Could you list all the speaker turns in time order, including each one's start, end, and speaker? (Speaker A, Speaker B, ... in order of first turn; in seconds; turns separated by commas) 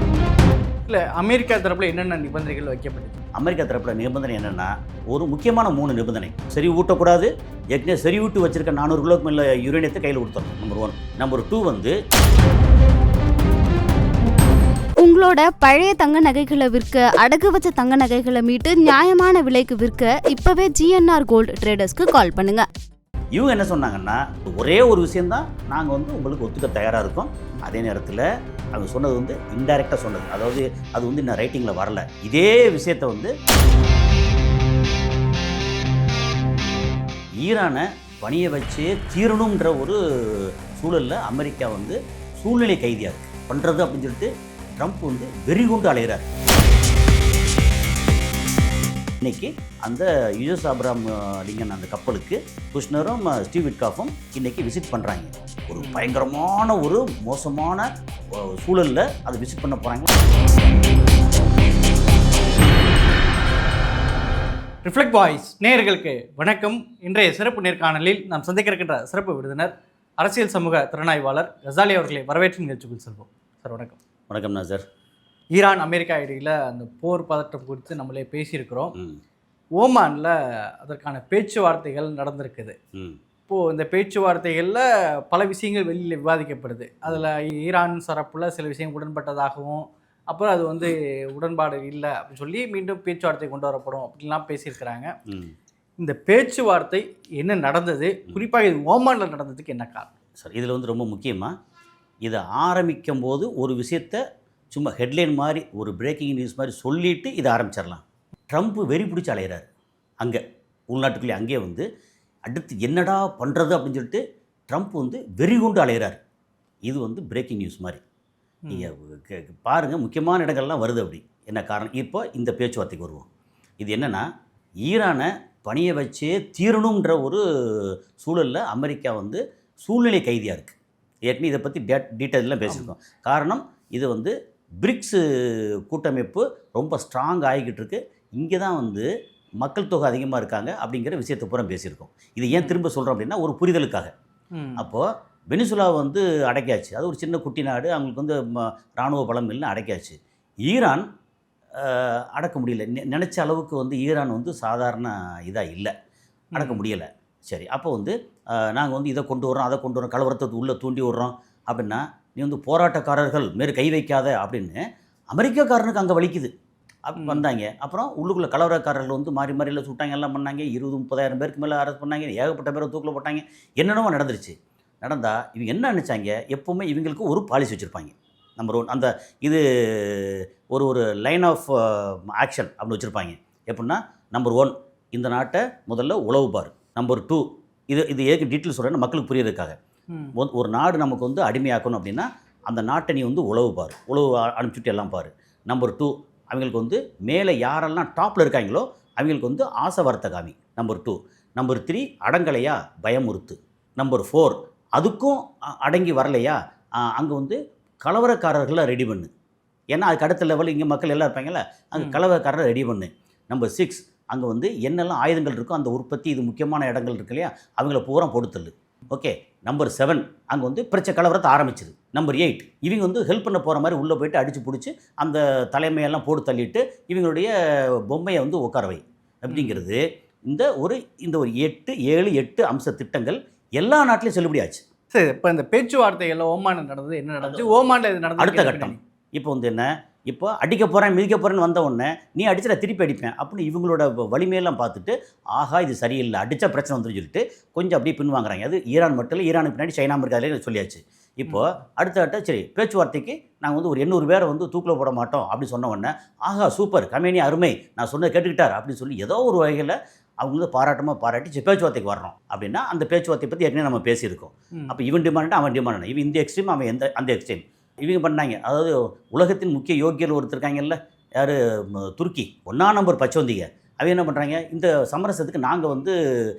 Speaker A: 0.8-3.2, Speaker B: 3.3-11.9, Speaker C: 15.0-22.7, Speaker B: 23.3-33.3, Speaker B: 37.4-46.3, Speaker B: 49.2-60.1, Speaker A: 55.8-56.2, Speaker A: 64.8-74.0, Speaker B: 74.3-74.8, Speaker A: 75.5-78.9, Speaker B: 78.9-79.2, Speaker A: 79.8-82.8, Speaker B: 82.9-83.2, Speaker A: 83.5-95.1, Speaker B: 95.3-95.5, Speaker A: 96.0-100.1, Speaker B: 100.4-101.5, Speaker B: 102.2-109.7, Speaker B: 110.2-111.8, Speaker B: 112.5-116.2, Speaker B: 116.9-118.0, Speaker A: 118.6-118.9, Speaker B: 118.7-123.3, Speaker B: 123.8-124.2, Speaker B: 124.8-139.1, Speaker B: 139.6-144.1, Speaker A: 142.5-142.8, Speaker A: 144.5-144.8, Speaker B: 144.8-151.0, Speaker B: 151.8-155.9, Speaker A: 156.5-156.8, Speaker B: 156.6-164.8, Speaker B: 165.3-166.5, Speaker B: 167.0-189.8, Speaker A: 167.2-167.4, Speaker B: 190.3-209.3, Speaker B: 209.9-227.5, Speaker A: 212.0-212.2, Speaker B: 228.1-234.8, Speaker A: 229.5-229.8, Speaker A: 235.1-239.0, Speaker B: 237.4-237.7, Speaker B: 238.4-276.1